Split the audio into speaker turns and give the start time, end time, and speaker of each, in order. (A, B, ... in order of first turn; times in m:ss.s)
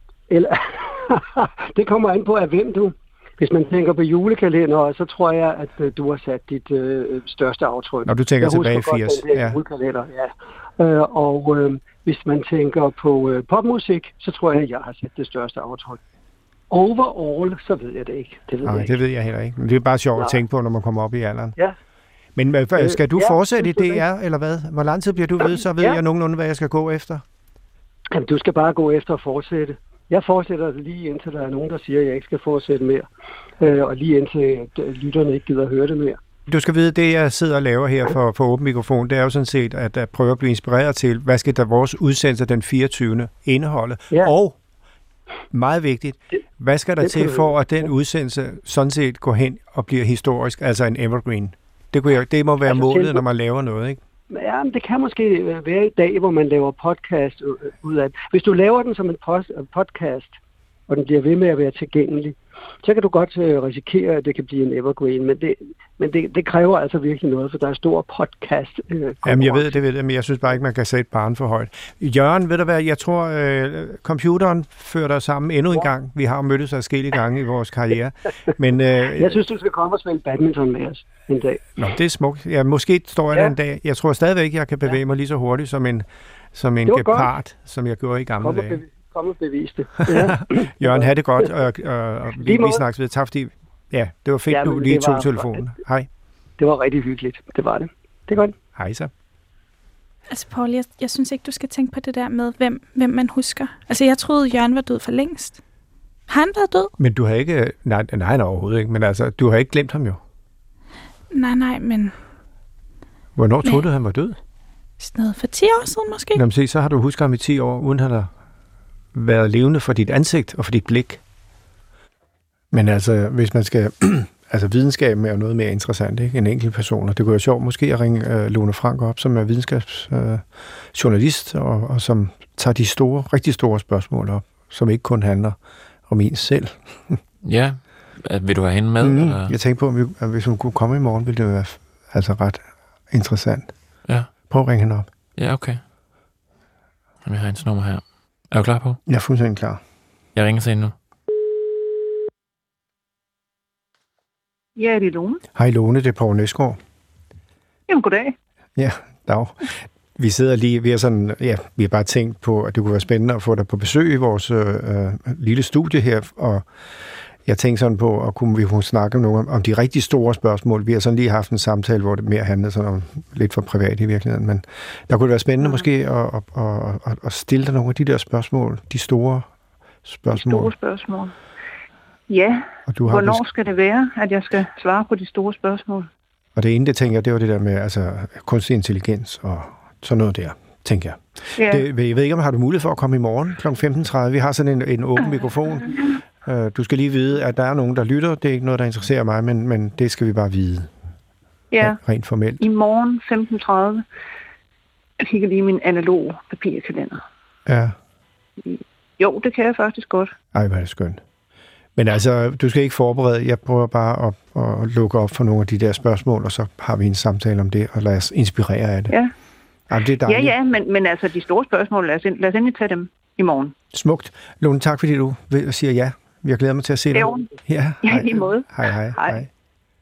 0:00.3-0:16.0 A
0:08.1-0:09.6 B
0:16.7-0:19.0 A
0:18.6-0:21.6 B
0:22.4-0:27.2 B
0:22.8-0:24.0 A
0:28.1-0:33.1 A
0:33.6-0:36.2 A
0:36.5-0:44.6 B
0:45.5-0:54.0 B
0:47.0-0:47.5 A
0:52.7-0:53.2 A
0:54.3-1:00.3 A
1:00.9-1:09.8 A
1:09.2-1:19.4 B
1:19.2-1:21.6 A
1:21.8-1:28.8 B
1:26.9-1:27.3 A
1:28.4-1:31.1 A
1:30.1-1:36.1 B
1:32.4-1:32.8 A
1:34.5-1:35.6 A
1:36.6-1:38.6 A
1:38.8-1:39.1 B
1:40.3-1:45.6 C
1:46.3-1:46.9 C
1:47.0-1:50.2 B
1:51.3-1:52.1 C
1:53.4-1:54.4 B
1:55.0-1:56.4 C
1:56.4-1:58.3 B
1:59.1-2:01.2 B
2:02.7-2:15.6 B
2:16.1-2:17.2 B
2:17.4-2:19.6 D
2:19.0-2:23.7 B
2:24.5-2:25.1 B
2:25.4-2:25.8 D
2:27.2-2:29.0 D
2:29.1-2:29.8 B
2:30.4-2:30.9 D
2:34.8-2:35.4 E
2:35.6-2:36.8 B
2:37.9-2:38.4 E
2:38.8-2:46.7 B
2:47.4-2:59.5 B
2:55.6-2:55.9 E
3:00.1-3:00.7 B
3:00.3-3:01.3 E
3:02.3-3:06.1 E
3:02.9-3:03.4 B
3:06.6-3:20.9 B
3:11.6-3:11.9 E
3:15.3-3:16.1 E
3:21.7-3:22.0 E
3:21.8-3:22.6 B
3:22.6-3:24.0 E
3:25.2-3:27.2 E
3:27.7-3:28.0 B
3:28.7-3:30.3 E
3:30.5-3:31.2 B
3:32.0-3:39.1 B
3:39.9-3:40.5 B
3:40.2-3:43.8 E
3:43.9-3:49.5 B
3:47.1-3:47.5 E
3:48.0-3:49.5 E